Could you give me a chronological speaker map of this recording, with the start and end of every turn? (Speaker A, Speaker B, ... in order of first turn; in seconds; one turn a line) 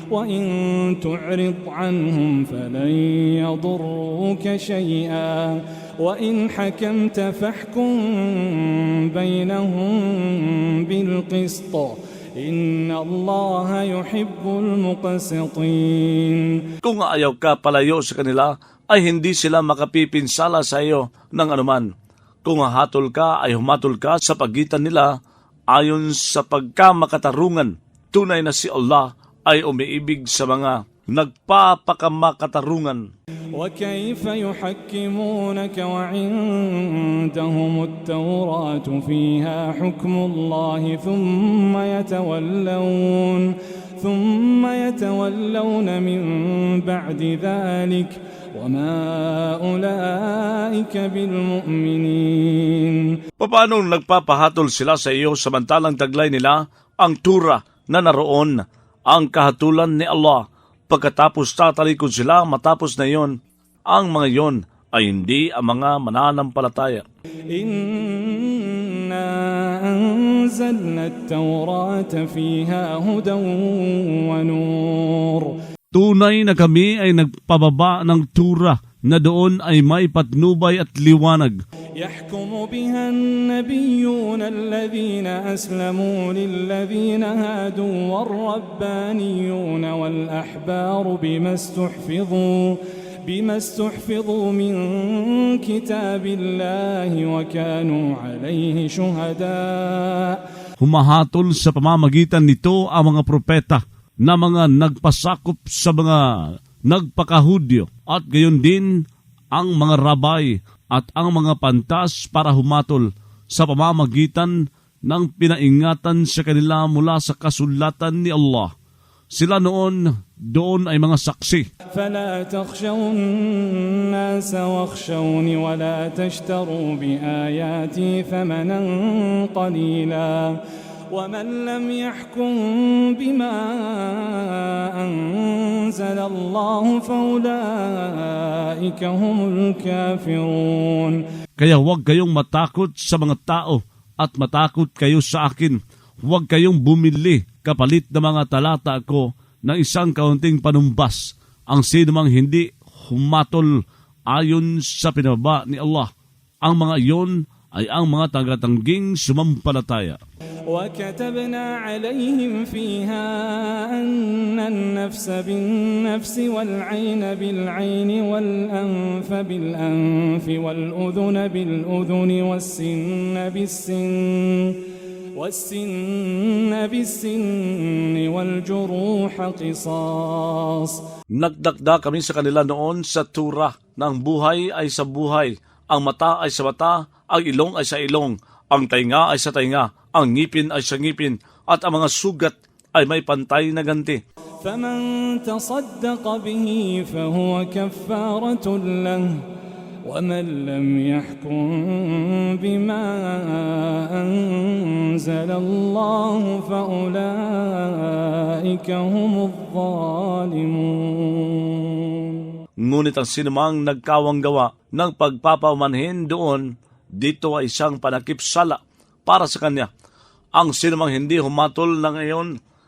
Speaker A: 0.1-16.7
Speaker B: 16.8-21.9
Speaker B: 22.4-25.1
Speaker B: 25.7-33.0
Speaker A: 33.5-53.2
Speaker B: 53.4-63.3
Speaker B: 63.9-67.0
Speaker A: 67.5-75.6
Speaker B: 75.9-81.6
Speaker A: 82.0-100.4
Speaker B: 100.8-106.2
Speaker B: 106.9-109.0
Speaker B: 109.5-118.7
Speaker B: 119.3-121.7
Speaker A: 121.9-130.6
Speaker A: 131.1-141.2
Speaker B: 141.6-153.7
Speaker B: 154.3-156.1
Speaker B: 156.6-160.2
Speaker A: 160.7-174.8
Speaker A: 175.3-181.0
Speaker B: 181.4-194.2
Speaker A: 194.6-199.4
Speaker A: 200.0-212.5
Speaker B: 212.8-219.9
Speaker B: 220.6-222.5